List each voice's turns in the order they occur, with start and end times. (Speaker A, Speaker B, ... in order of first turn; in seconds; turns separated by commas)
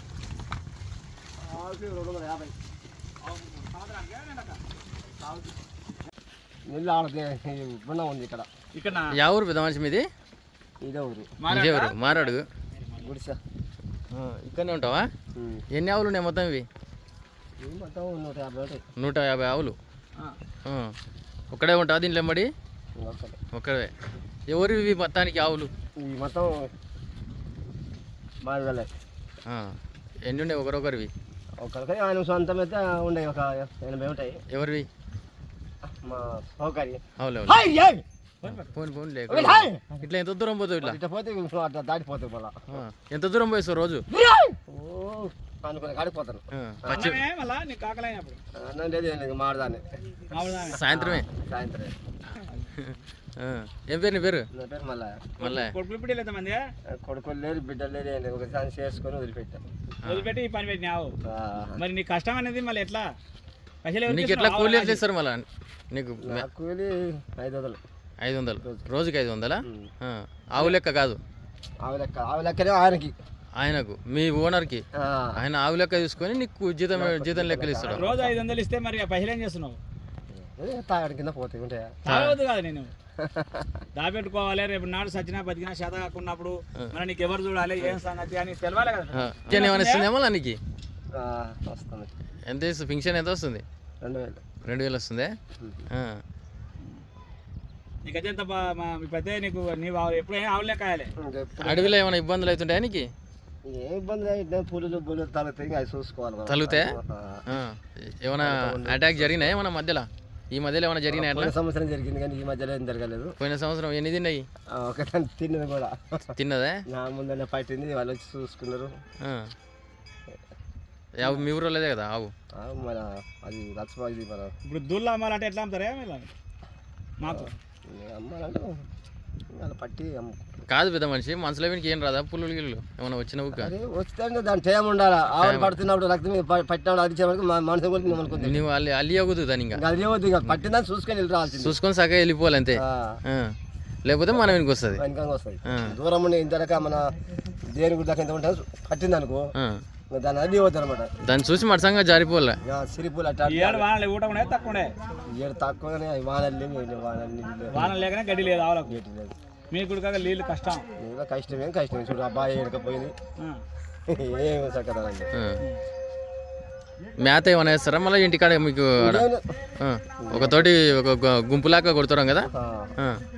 Speaker A: 1.4-2.5, Speaker B: 3.2-4.6, Speaker A: 6.7-8.5, Speaker B: 8.7-9.2, Speaker C: 9.1-10.1, Speaker A: 10.8-11.3, Speaker B: 11.4-13.1, Speaker C: 11.5-12.5, Speaker A: 13.0-13.4, Speaker C: 14.1-15.1, Speaker A: 15.3-15.6, Speaker C: 15.7-16.6, Speaker A: 17.6-18.8, Speaker C: 19.0-19.8, Speaker C: 20.6-20.9, Speaker C: 21.5-22.5, Speaker A: 23.0-23.4, Speaker C: 23.5-23.9, Speaker C: 24.5-25.7, Speaker A: 26.0-26.7, Speaker A: 28.4-28.9, Speaker C: 29.5-29.7, Speaker C: 30.2-31.1, Speaker A: 31.6-34.4, Speaker C: 34.5-34.9, Speaker A: 36.0-38.0, Speaker C: 37.2-37.6, Speaker B: 38.4-38.7, Speaker C: 38.5-41.0, Speaker A: 39.3-40.0, Speaker A: 40.8-42.8, Speaker C: 42.7-44.0, Speaker A: 44.1-47.1, Speaker C: 46.5-47.2, Speaker B: 46.9-48.4, Speaker A: 48.5-49.9, Speaker B: 50.3-50.8, Speaker C: 50.7-51.2, Speaker A: 50.8-51.9, Speaker B: 52.4-52.7, Speaker C: 52.8-54.5, Speaker A: 54.5-55.3, Speaker B: 55.4-56.6, Speaker C: 55.4-55.7, Speaker A: 56.9-59.6, Speaker B: 60.0-61.1, Speaker A: 61.2-61.8, Speaker B: 61.8-63.1, Speaker B: 63.8-65.0, Speaker C: 64.1-66.4, Speaker A: 66.2-67.8, Speaker C: 68.2-71.2, Speaker A: 69.6-69.9, Speaker A: 71.8-73.1, Speaker C: 73.6-74.8, Speaker A: 74.9-75.4, Speaker C: 75.3-78.0, Speaker A: 76.9-78.4, Speaker B: 77.9-79.8, Speaker A: 80.3-82.0, Speaker B: 82.0-82.9, Speaker C: 82.1-82.3, Speaker A: 83.2-83.7, Speaker B: 83.9-90.1, Speaker C: 89.2-90.6, Speaker A: 91.1-92.1, Speaker C: 92.5-93.6, Speaker A: 94.0-94.4, Speaker C: 94.6-95.3, Speaker A: 95.6-95.8, Speaker C: 95.9-96.2, Speaker B: 98.0-101.1, Speaker A: 101.2-102.0, Speaker C: 101.6-103.0, Speaker A: 103.6-107.4, Speaker C: 106.5-106.9, Speaker C: 107.5-111.5, Speaker A: 108.4-109.5, Speaker A: 111.1-113.3, Speaker C: 113.4-114.4, Speaker A: 114.7-116.3, Speaker C: 116.3-116.8, Speaker A: 116.9-118.9, Speaker C: 119.2-119.5, Speaker C: 121.2-122.3, Speaker A: 122.6-124.5, Speaker B: 124.6-126.3, Speaker B: 127.2-127.5, Speaker A: 127.2-128.8, Speaker A: 129.5-130.4, Speaker C: 130.7-133.7, Speaker A: 133.5-138.6, Speaker C: 135.4-135.8, Speaker C: 138.3-139.8, Speaker A: 139.7-141.8, Speaker C: 141.5-143.5, Speaker A: 142.7-143.2, Speaker C: 144.0-145.0, Speaker A: 144.9-147.0, Speaker C: 145.7-145.9, Speaker A: 147.7-149.5, Speaker C: 149.5-149.8, Speaker A: 150.1-151.1, Speaker C: 151.2-152.6, Speaker A: 152.7-153.8, Speaker B: 153.5-154.9, Speaker A: 155.3-157.9, Speaker B: 157.7-159.0, Speaker A: 158.8-159.3, Speaker B: 159.7-160.8, Speaker A: 161.0-163.1, Speaker A: 164.1-165.3, Speaker C: 167.2-169.3, Speaker A: 169.0-169.4, Speaker C: 169.8-173.2, Speaker A: 170.2-170.7, Speaker A: 172.4-172.9